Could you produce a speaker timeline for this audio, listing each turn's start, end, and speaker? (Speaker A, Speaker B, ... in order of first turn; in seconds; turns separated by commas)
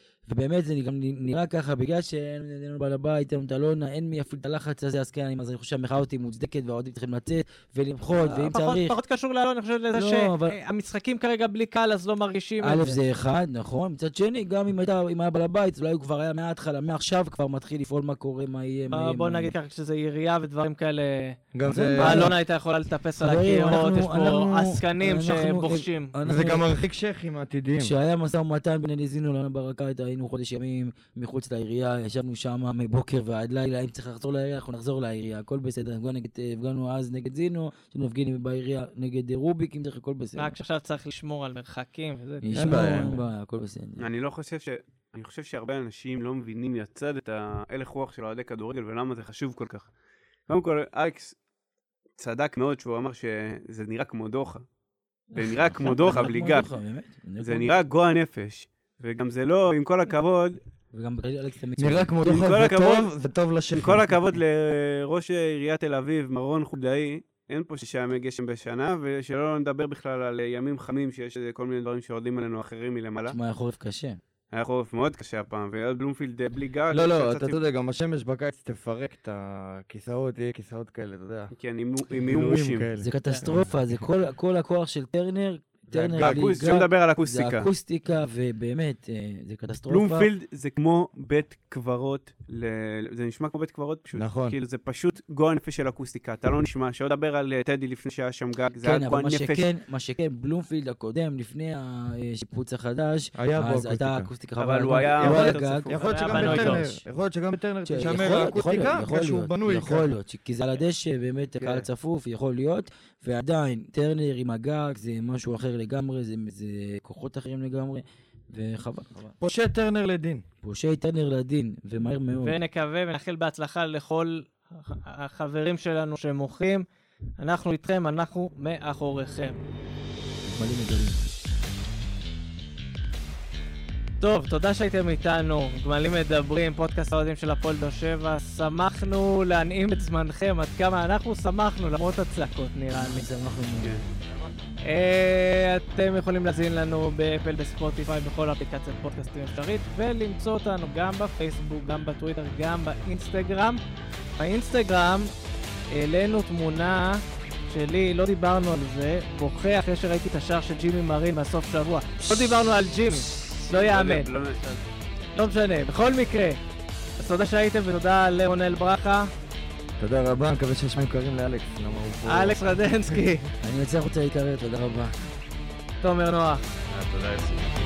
Speaker A: 0.2-8.9, Speaker B: 8.2-13.0, Speaker A: 9.9-10.6, Speaker A: 12.6-19.5, Speaker B: 18.9-21.4, Speaker C: 21.5-22.3, Speaker A: 21.6-22.4, Speaker B: 22.0-26.1, Speaker A: 23.2-26.7, Speaker C: 26.2-27.9, Speaker A: 27.8-40.5, Speaker B: 40.4-42.8, Speaker A: 42.4-44.0, Speaker C: 42.5-43.2, Speaker D: 44.0-49.9, Speaker D: 50.5-51.4, Speaker D: 52.2-54.6, Speaker D: 55.3-56.7, Speaker A: 55.3-57.7, Speaker D: 57.4-60.6, Speaker A: 60.9-62.1, Speaker C: 61.8-64.2, Speaker D: 62.2-63.1, Speaker D: 63.7-73.4, Speaker A: 73.3-74.2, Speaker D: 74.5-77.6, Speaker C: 76.9-81.5, Speaker D: 81.5-82.9, Speaker C: 82.1-84.1, Speaker A: 83.0-90.3, Speaker C: 85.9-86.5, Speaker D: 86.2-87.7, Speaker D: 89.9-99.6, Speaker C: 94.2-94.5, Speaker A: 98.8-107.0, Speaker C: 103.3-104.3, Speaker D: 104.6-106.6, Speaker C: 105.0-110.0, Speaker B: 106.0-106.8, Speaker A: 107.8-119.3, Speaker C: 111.6-111.8, Speaker C: 119.4-120.4, Speaker A: 120.6-122.6, Speaker B: 122.4-126.8, Speaker B: 127.4-129.6, Speaker A: 130.5-131.2, Speaker B: 134.2-143.3, Speaker A: 142.9-143.9, Speaker B: 144.8-153.8, Speaker B: 154.4-155.3, Speaker B: 155.9-164.3, Speaker D: 163.7-164.8, Speaker B: 165.3-166.6, Speaker B: 167.2-169.3, Speaker C: 170.0-173.2, Speaker B: 172.2-173.4, Speaker A: 173.6-175.1, Speaker B: 176.0-176.6, Speaker C: 176.9-177.6